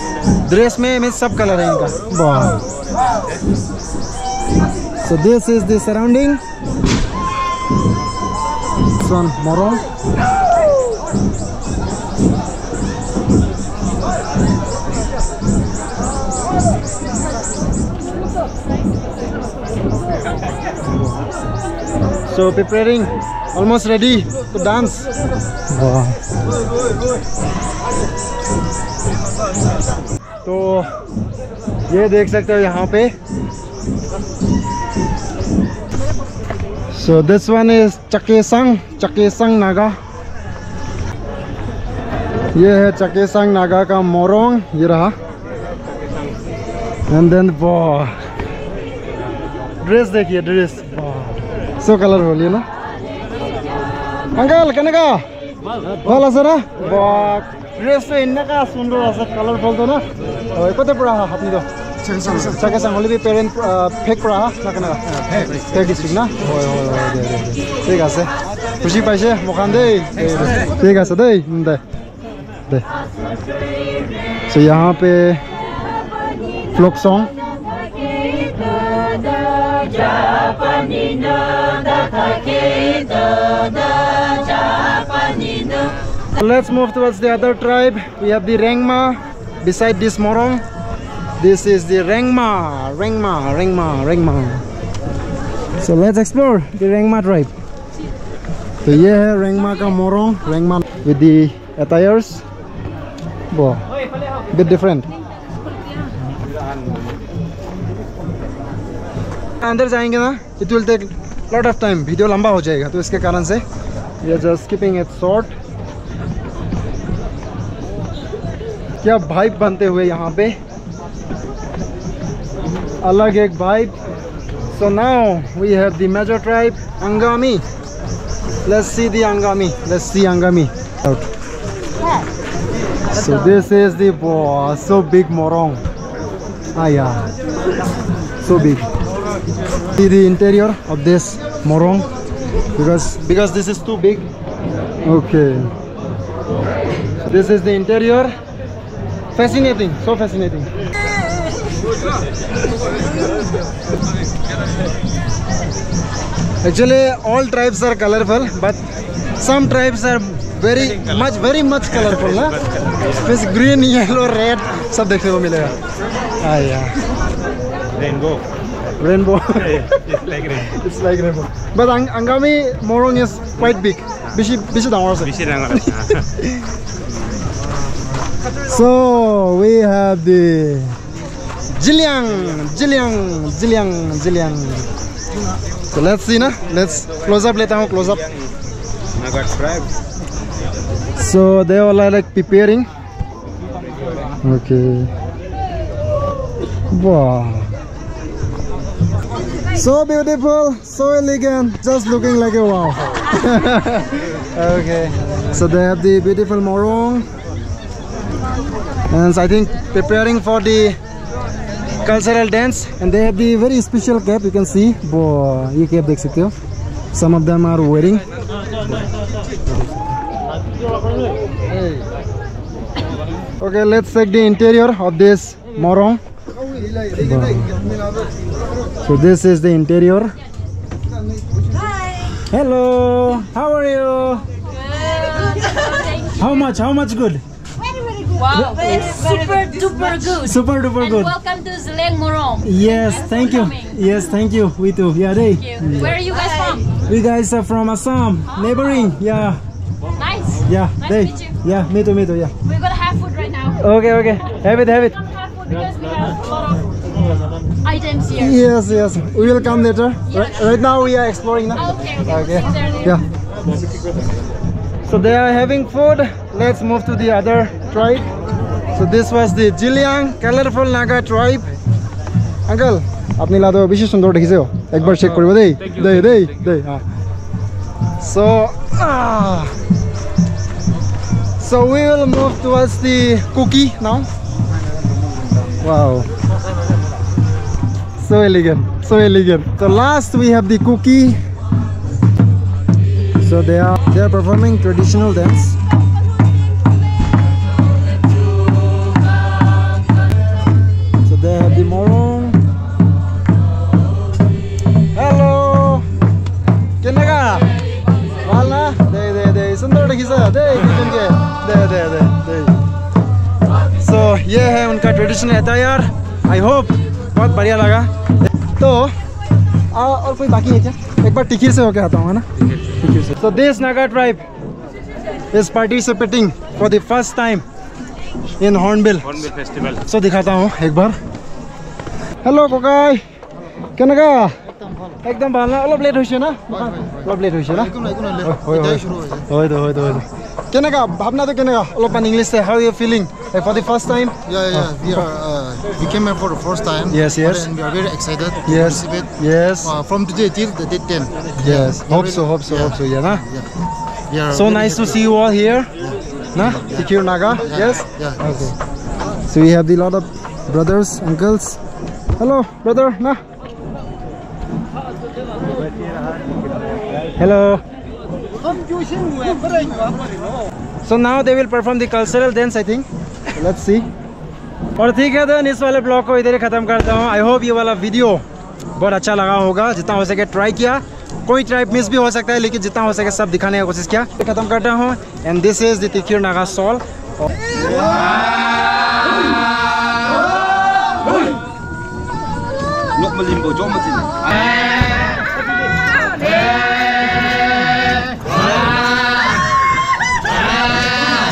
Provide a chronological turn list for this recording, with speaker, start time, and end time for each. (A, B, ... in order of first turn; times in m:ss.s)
0:00.4-0:02.6 A
0:05.0-0:06.4 A
0:09.0-0:09.8 A
0:22.3-0:25.1 A
0:25.7-0:26.2 A
0:30.4-0:30.9 A
0:31.9-0:33.1 A
0:36.9-0:40.0 A
0:42.5-0:45.2 A
0:47.1-0:48.1 A
0:49.8-0:52.6 A
0:54.4-0:55.2 A
0:56.0-1:01.7 A
1:02.1-1:02.5 B
1:02.4-1:11.8 A
1:14.5-1:15.4 A
1:16.7-1:17.3 A
1:20.8-1:21.3 C
1:22.1-1:23.5 C
1:26.3-1:30.6 A
1:31.4-1:34.6 A
1:35.8-1:37.5 A
1:38.8-1:42.4 A
1:43.5-1:43.9 A
1:44.5-1:45.1 A
1:49.6-1:53.6 A
1:54.2-1:55.5 A
1:59.0-2:00.6 A
2:03.0-2:04.0 A
2:04.7-2:07.6 A
2:08.6-2:11.3 A
2:13.1-2:15.8 A
2:16.7-2:17.3 A
2:18.4-2:18.9 A
2:19.9-2:22.1 A
2:22.8-2:24.3 A
2:25.0-2:25.7 A
2:27.2-2:28.3 A
2:29.3-2:30.7 A
2:36.6-2:38.8 A
2:39.4-2:45.8 A
2:42.4-2:43.2 D
2:46.4-2:47.0 A
2:48.0-2:48.4 D
2:49.0-2:56.7 A
2:49.9-2:50.7 D
2:55.4-2:56.2 D
2:58.6-3:01.0 A
3:01.7-3:04.9 A
3:05.9-3:08.3 A
3:09.2-3:09.8 D
3:11.2-3:12.9 A
3:14.4-3:15.1 A
3:16.9-3:17.7 A
3:19.7-3:27.3 A
3:29.1-3:31.0 A
3:32.0-3:36.5 A
3:37.1-3:38.2 A
3:39.7-3:40.0 A
3:41.7-3:42.0 A
3:43.6-3:46.2 A
3:47.0-3:47.8 A
3:49.0-3:50.3 A
3:52.4-3:54.4 A
3:55.0-3:56.2 C
3:56.2-3:57.4 A
3:58.0-4:00.4 C
3:58.5-4:01.4 A
4:01.3-4:02.6 C
4:02.6-4:06.3 A
4:06.0-4:06.9 C
4:06.9-4:09.6 A
4:10.2-4:10.6 C
4:10.5-4:12.5 A
4:12.7-4:13.7 C
4:13.7-4:15.2 A
4:15.5-4:16.9 C
4:17.8-4:18.3 C
4:18.3-4:23.2 A
4:22.0-4:22.8 C
4:25.0-4:28.3 A
4:28.9-4:31.7 A
4:32.7-4:37.0 A
4:38.2-4:39.7 A
4:41.6-4:44.3 A
4:45.8-4:46.3 A
4:48.2-4:51.4 A
4:53.4-4:55.8 A
5:01.2-5:02.6 A
5:05.1-5:06.1 A
5:07.0-5:07.7 A
5:08.4-5:12.8 A
5:14.0-5:18.1 A
5:18.8-5:19.1 A
5:19.9-5:24.4 A
5:25.5-5:27.6 A
5:28.6-5:31.2 A
5:29.6-5:30.0 D
5:32.4-5:33.2 A
5:34.0-5:34.6 A
5:35.2-5:45.3 A
5:36.8-5:37.2 B
5:37.9-5:39.4 B
5:44.5-5:49.2 B
5:47.1-5:47.7 A
5:48.6-5:50.0 A
5:49.9-5:52.2 B
5:51.5-5:53.5 A
5:54.3-5:54.8 B
5:54.5-5:55.9 A
5:56.5-5:58.7 A
5:59.5-6:01.8 A
6:02.4-6:03.4 A
6:07.3-6:07.8 A
6:11.0-6:14.1 A
6:15.0-6:27.5 A
6:33.2-6:34.3 B